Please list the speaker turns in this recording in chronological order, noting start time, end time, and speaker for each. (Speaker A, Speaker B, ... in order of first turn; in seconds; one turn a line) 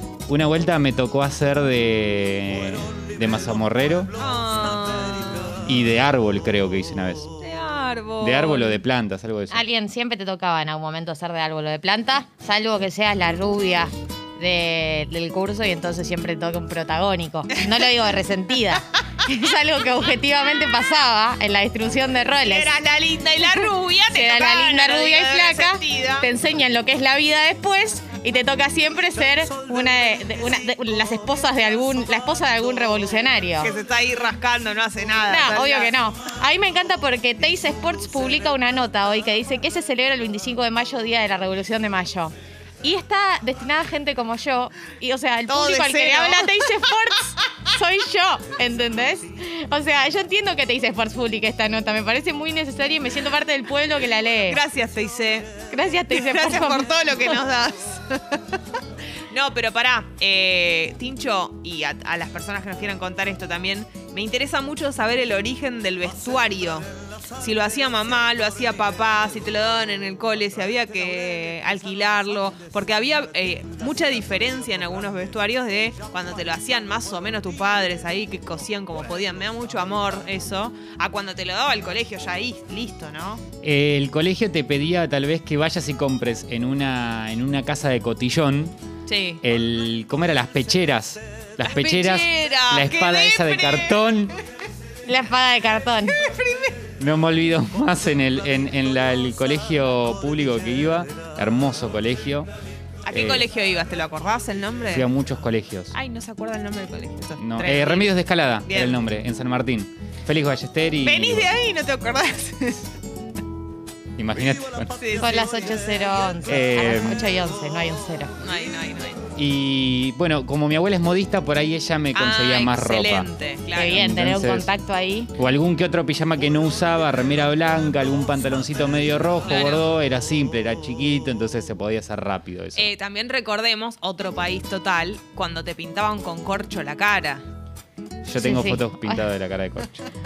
Speaker A: 0.3-4.1
Speaker B: 4.2-5.6
Speaker A: 5.7-7.3
Speaker B: 7.4-8.8
Speaker A: 8.2-9.6
Speaker C: 9.5-22.7
Speaker B: 22.4-26.3
Speaker C: 23.4-33.7
Speaker B: 33.6-35.9
Speaker C: 35.3-54.6
Speaker B: 45.5-46.7
Speaker B: 54.5-55.5
Speaker C: 55.7-57.4
Speaker B: 56.1-58.6
Speaker B: 59.3-83.4
Speaker A: 83.6-88.8
Speaker B: 89.1-89.4
Speaker A: 89.4-94.3
Speaker B: 91.6-94.4
Speaker C: 95.0-96.2
Speaker B: 96.1-96.8
Speaker A: 97.0-102.5
Speaker B: 103.0-105.1
Speaker A: 103.1-103.4
Speaker A: 104.9-105.9
Speaker B: 105.9-108.1
Speaker A: 107.4-111.5
Speaker B: 108.6-109.0
Speaker B: 111.0-112.9
Speaker A: 114.2-114.9
Speaker B: 115.0-115.6
Speaker C: 115.2-118.4
Speaker A: 116.5-117.2
Speaker B: 118.4-119.2
Speaker A: 119.4-123.3
Speaker B: 122.1-124.0
Speaker C: 123.7-125.3
Speaker A: 123.8-124.7
Speaker A: 125.4-132.8
Speaker B: 129.4-129.8
Speaker B: 132.7-137.4
Speaker A: 138.2-139.9
Speaker C: 138.4-139.2